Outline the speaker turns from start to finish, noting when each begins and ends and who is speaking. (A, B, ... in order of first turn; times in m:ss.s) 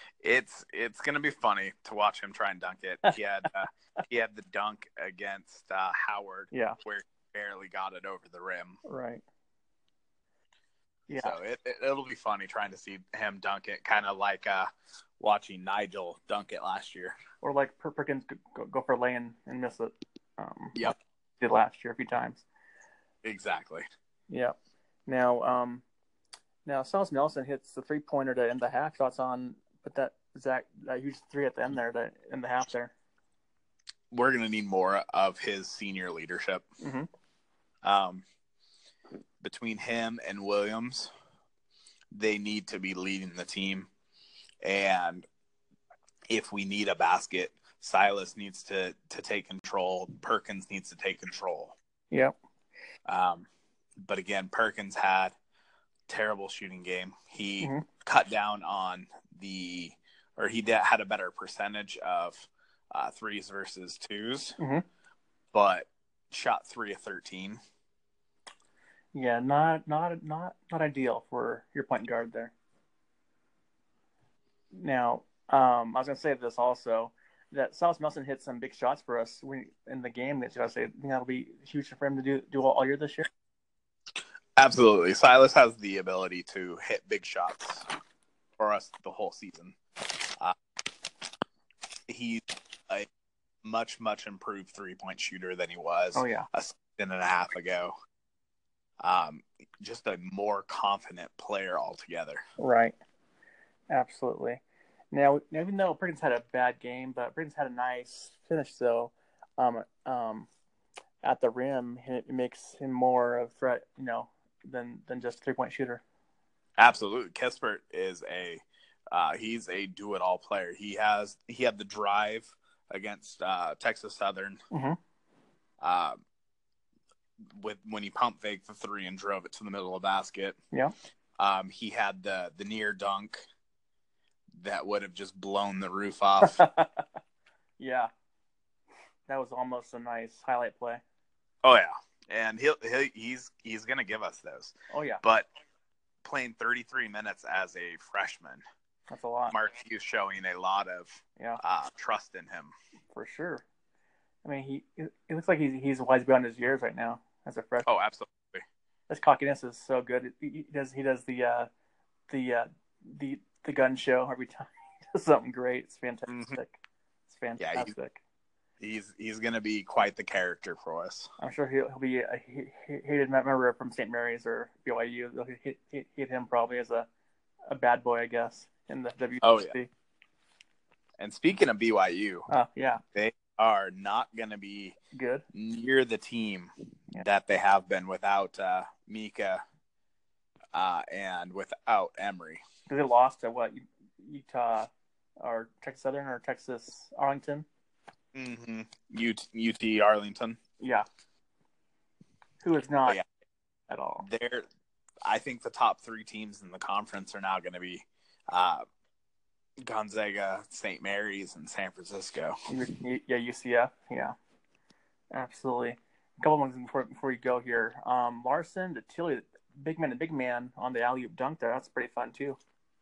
0:00.2-0:08.8 A
0:06.5-0:06.8 B
0:08.8-0:09.2 B
0:11.1-0:11.4 B
0:11.2-0:14.7 A
0:15.2-0:17.2 A
0:17.4-0:22.4 B
0:23.2-0:23.8 A
0:24.3-0:24.6 B
0:25.1-0:25.8 B
0:26.7-0:32.9 B
0:34.1-0:36.6 A
0:36.8-0:37.1 B
0:37.8-0:38.2 A
0:39.4-0:41.1 A
0:42.1-0:43.9 A
0:44.6-0:45.3 A
0:46.3-0:51.8 A
0:53.1-0:53.5 A
0:54.0-0:55.4 A
0:56.1-1:04.6 A
1:04.6-1:04.8 B
1:05.5-1:07.6 A
1:09.1-1:12.5 B
1:14.7-1:23.3 B
1:24.6-1:27.9 A
1:28.6-1:30.6 A
1:32.1-1:33.1 A
1:33.6-1:37.9 A
1:36.2-1:36.5 B
1:39.0-1:42.4 A
1:42.6-1:43.0 B
1:43.9-1:44.6 B
1:45.1-1:50.5 B
1:51.2-1:56.0 B
1:56.8-2:04.6 A
2:04.7-2:05.0 B
2:05.8-2:06.2 A
2:07.6-2:10.6 A
2:11.4-2:13.4 A
2:14.6-2:16.6 A
2:16.4-2:17.0 B
2:17.8-2:18.1 B
2:19.3-2:21.0 B
2:21.6-2:25.5 A
2:24.9-2:25.2 B
2:26.2-2:28.6 A
2:29.1-2:29.6 B
2:29.5-2:32.7 A
2:33.1-2:33.6 B
2:34.4-2:37.9 B
2:37.9-2:38.6 A
2:39.1-2:41.7 B
2:42.3-2:48.2 B
2:46.3-2:46.6 A
2:47.6-2:47.9 A
2:48.8-2:51.3 A
2:51.4-2:57.1 B
2:57.7-2:59.9 B
2:59.4-2:59.7 A
3:01.2-3:02.5 A
3:02.5-3:03.0 B
3:03.2-3:05.0 A
3:05.1-3:05.4 B
3:05.5-3:09.6 A
3:10.7-3:12.6 A
3:12.9-3:14.9 B
3:15.4-3:17.7 B
3:18.3-3:20.6 A
3:20.8-3:21.1 B
3:22.6-3:23.2 B
3:23.9-3:24.3 B
3:24.2-3:24.7 A
3:25.2-3:28.8 A
3:29.8-3:32.6 A
3:32.7-3:34.4 B
3:35.3-3:42.6 B